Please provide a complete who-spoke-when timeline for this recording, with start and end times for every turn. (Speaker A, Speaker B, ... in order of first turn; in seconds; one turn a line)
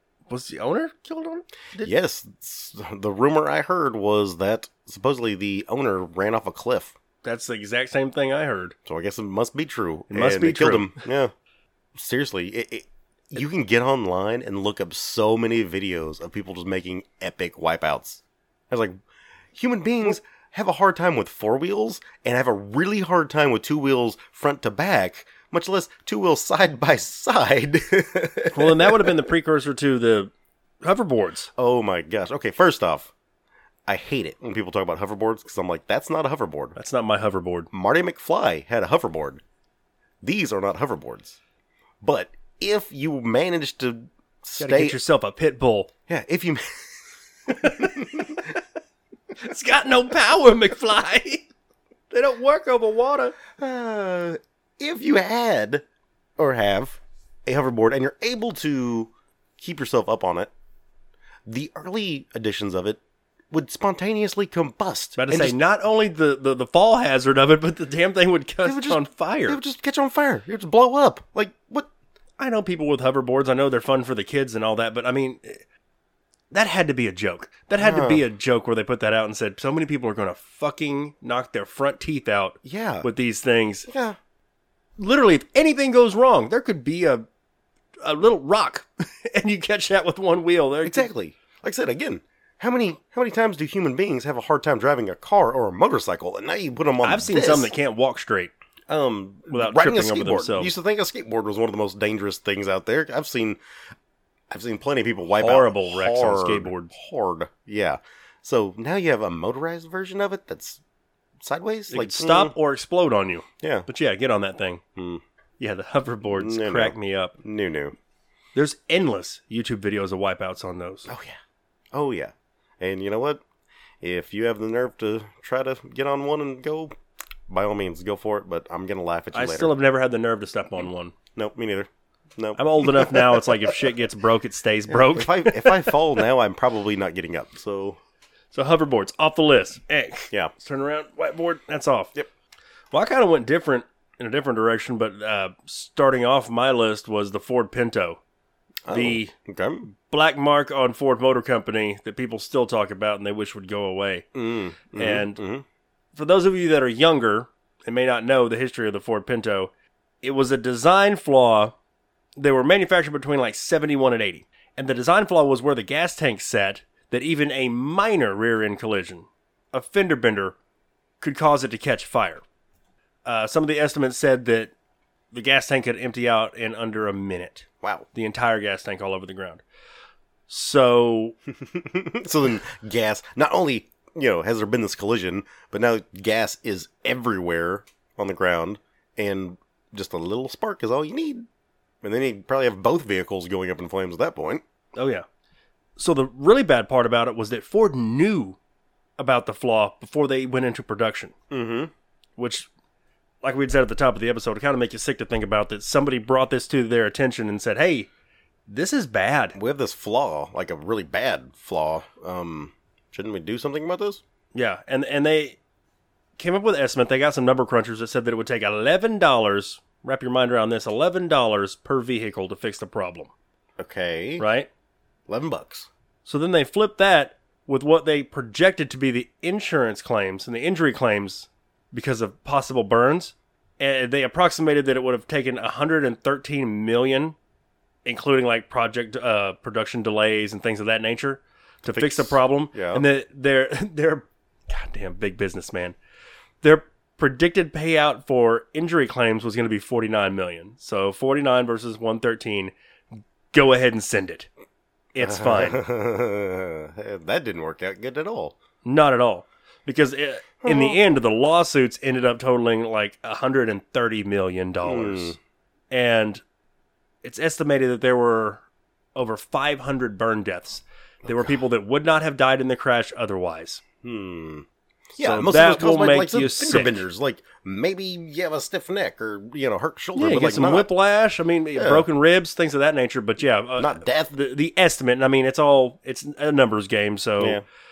Speaker A: 0.3-1.9
Speaker B: 1.8-6.9
Speaker A: 7.2-8.7
Speaker B: 8.8-11.3
Speaker A: 10.1-11.0
Speaker B: 11.9-18.9
Speaker B: 19.5-29.2
Speaker A: 28.5-31.5
Speaker B: 31.6-33.1
Speaker B: 33.9-36.8
Speaker A: 36.8-37.7
Speaker B: 37.7-39.4
Speaker B: 40.2-41.4
Speaker B: 42.0-45.0
Speaker A: 44.6-45.9
Speaker B: 46.1-48.5
Speaker A: 47.5-48.6
Speaker A: 49.4-51.4
Speaker A: 52.1-53.4
Speaker B: 53.5-55.8
Speaker B: 56.4-60.5
Speaker B: 61.5-65.6
Speaker A: 65.2-69.6
Speaker B: 68.6-71.9
Speaker A: 72.4-75.6
Speaker A: 76.5-83.9
Speaker B: 77.8-78.2
Speaker B: 82.6-83.1
Speaker B: 83.9-84.2
Speaker A: 85.0-87.2
Speaker A: 88.0-91.1
Speaker B: 90.8-97.7
Speaker A: 97.0-98.5
Speaker B: 98.9-103.6
Speaker A: 99.5-100.7
Speaker B: 104.5-110.8
Speaker A: 105.3-106.9
Speaker B: 111.4-112.5
Speaker A: 111.9-114.8
Speaker B: 113.6-113.9
Speaker B: 115.0-115.2
Speaker A: 115.6-117.3
Speaker B: 116.3-117.9
Speaker A: 118.5-121.1
Speaker B: 121.1-121.4
Speaker B: 121.9-123.4
Speaker B: 124.0-126.9
Speaker B: 127.5-129.7
Speaker A: 129.3-131.1
Speaker B: 131.3-133.9
Speaker A: 132.6-136.2
Speaker B: 134.9-138.0
Speaker A: 138.5-142.1
Speaker A: 142.9-148.2
Speaker B: 148.8-149.9
Speaker A: 148.9-149.3
Speaker A: 149.9-154.3
Speaker B: 154.3-155.6
Speaker A: 154.9-155.4
Speaker A: 156.1-159.7
Speaker A: 160.2-161.7
Speaker A: 162.4-170.6
Speaker A: 171.2-172.4
Speaker A: 173.2-174.7
Speaker A: 175.3-179.6
Speaker A: 180.5-181.3
Speaker B: 181.6-191.4
Speaker B: 192.0-194.6
Speaker A: 194.9-195.2
Speaker A: 196.0-198.6
Speaker A: 199.2-201.3
Speaker B: 201.5-201.9
Speaker A: 202.4-202.7
Speaker A: 203.4-208.1
Speaker A: 208.7-209.6
Speaker B: 209.5-214.2
Speaker A: 214.5-215.6
Speaker A: 216.4-223.3
Speaker B: 223.8-224.4
Speaker A: 224.4-224.7
Speaker B: 225.3-225.9
Speaker A: 226.2-237.3
Speaker A: 238.0-245.9
Speaker B: 241.9-243.0
Speaker A: 246.6-252.7
Speaker A: 253.5-254.5
Speaker A: 255.1-255.8
Speaker B: 255.2-258.5
Speaker A: 258.8-265.4
Speaker B: 260.6-261.0
Speaker B: 264.8-265.4
Speaker A: 265.9-266.4
Speaker A: 267.2-268.6
Speaker A: 269.1-273.8
Speaker B: 271.2-271.6
Speaker B: 274.0-280.9
Speaker A: 275.2-277.0
Speaker A: 280.1-287.6
Speaker B: 281.8-282.1
Speaker B: 283.8-284.3
Speaker B: 287.4-287.6